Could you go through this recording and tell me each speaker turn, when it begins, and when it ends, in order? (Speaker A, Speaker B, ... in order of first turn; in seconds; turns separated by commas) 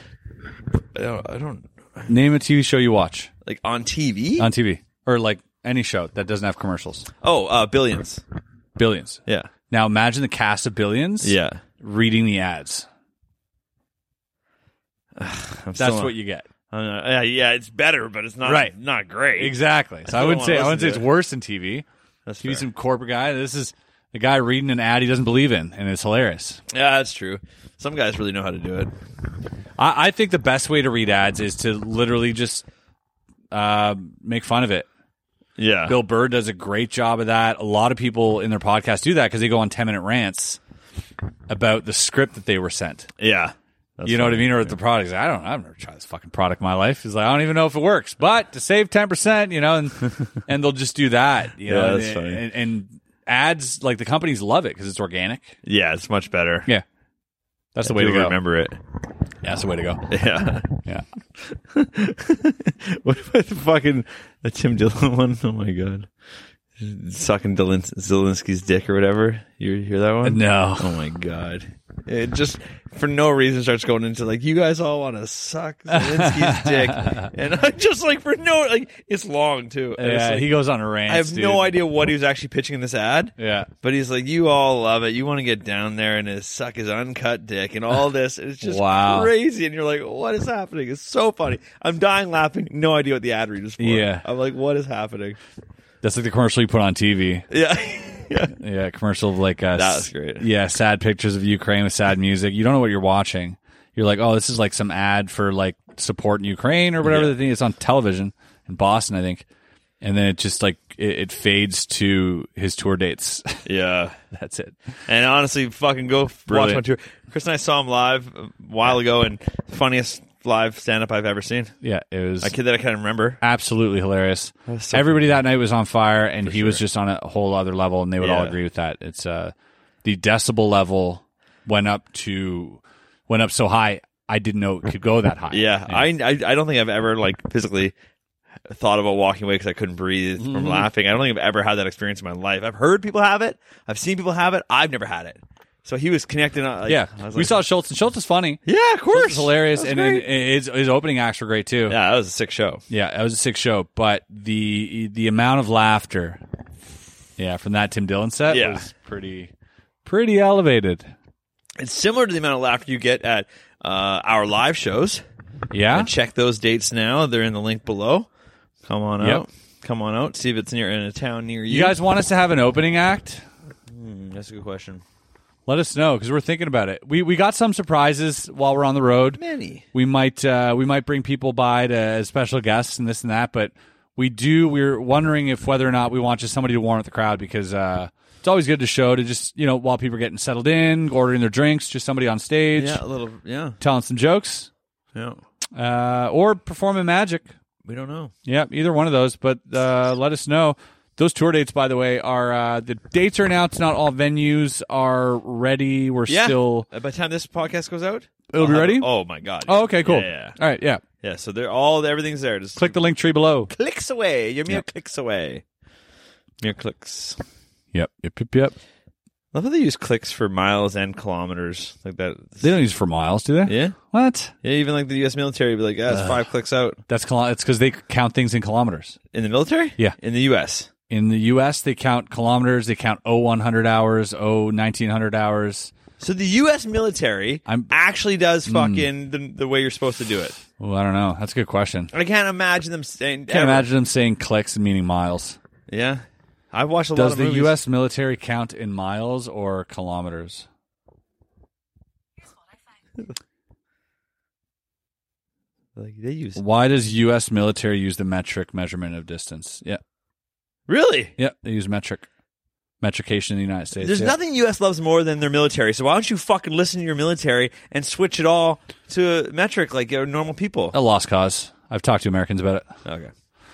Speaker A: 0.9-2.1, Speaker B: 2.1-3.3, Speaker A: 3.5-4.5, Speaker B: 4.4-7.1, Speaker A: 7.2-8.2, Speaker B: 8.8-12.9, Speaker A: 11.2-11.6, Speaker A: 15.2-16.2, Speaker B: 15.8-16.5, Speaker A: 16.7-21.1, Speaker B: 18.4-18.7, Speaker B: 19.4-21.9, Speaker A: 22.3-22.6, Speaker B: 22.4-26.6, Speaker A: 26.7-28.9, Speaker B: 29.8-32.6, Speaker B: 33.5-34.9, Speaker A: 35.6-36.0, Speaker B: 35.9-40.6, Speaker B: 41.5-43.1, Speaker A: 43.2-44.8, Speaker B: 44.1-55.5, Speaker A: 51.6-52.4, Speaker A: 55.6-56.7, Speaker B: 57.8-58.4, Speaker A: 57.8-58.8, Speaker B: 59.4-60.1, Speaker A: 60.1-60.8, Speaker A: 61.5-66.1, Speaker A: 66.8-80.5, Speaker B: 70.2-71.0, Speaker B: 75.9-77.3, Speaker B: 80.0-81.7, Speaker A: 81.1-95.4, Speaker B: 83.4-83.7, Speaker B: 88.6-89.3, Speaker B: 93.8-94.2, Speaker B: 96.0-97.5, Speaker A: 97.5-98.5, Speaker B: 98.6-109.5, Speaker A: 99.8-100.5, Speaker A: 107.0-107.3, Speaker B: 110.0-113.7, Speaker A: 113.7-114.2, Speaker B: 114.3-114.8, Speaker A: 115.1-121.8, Speaker B: 116.5-116.8, Speaker B: 121.8-122.5, Speaker A: 122.4-123.4, Speaker B: 123.4-129.5, Speaker A: 124.7-125.3, Speaker A: 126.5-126.8, Speaker A: 128.2-128.6, Speaker B: 130.0-136.1, Speaker A: 135.5-137.9, Speaker A: 138.7-147.6, Speaker B: 140.4-140.9, Speaker B: 146.9-148.6, Speaker A: 148.7-150.3, Speaker B: 149.1-152.0, Speaker A: 151.9-152.8, Speaker B: 152.9-156.4, Speaker B: 157.4-159.5, Speaker A: 158.5-158.9, Speaker B: 160.1-161.1, Speaker A: 161.8-165.2, Speaker B: 165.7-166.1, Speaker A: 165.9-168.3, Speaker A: 168.9-172.0, Speaker B: 171.7-173.4, Speaker A: 173.9-175.0, Speaker B: 175.7-179.4, Speaker A: 179.4-179.8, Speaker B: 179.9-193.0, Speaker A: 192.8-193.8, Speaker B: 193.8-194.7, Speaker A: 195.2-195.4, Speaker B: 195.8-197.5, Speaker A: 197.8-198.3, Speaker B: 198.5-206.9, Speaker A: 206.3-210.6, Speaker B: 208.5-209.1, Speaker B: 209.7-211.0, Speaker A: 211.2-213.0, Speaker B: 212.8-213.7, Speaker A: 213.7-215.6, Speaker A: 216.6-217.4, Speaker B: 217.9-218.8, Speaker A: 219.5-222.7, Speaker B: 222.6-224.5, Speaker A: 223.7-224.0, Speaker A: 224.6-227.0, Speaker B: 226.1-226.4, Speaker B: 227.1-229.2, Speaker A: 229.3-230.9, Speaker B: 231.1-235.9, Speaker A: 236.2-240.6, Speaker B: 237.7-237.9, Speaker B: 238.7-239.1, Speaker B: 240.8-242.1, Speaker A: 242.1-243.9, Speaker B: 243.5-245.6, Speaker A: 245.9-247.8, Speaker B: 247.2-250.7, Speaker A: 256.0-256.6, Speaker B: 256.6-260.0, Speaker A: 260.9-261.3, Speaker B: 261.4-262.3, Speaker B: 263.0-264.4, Speaker A: 264.0-270.9, Speaker B: 270.9-272.9, Speaker A: 273.1-273.3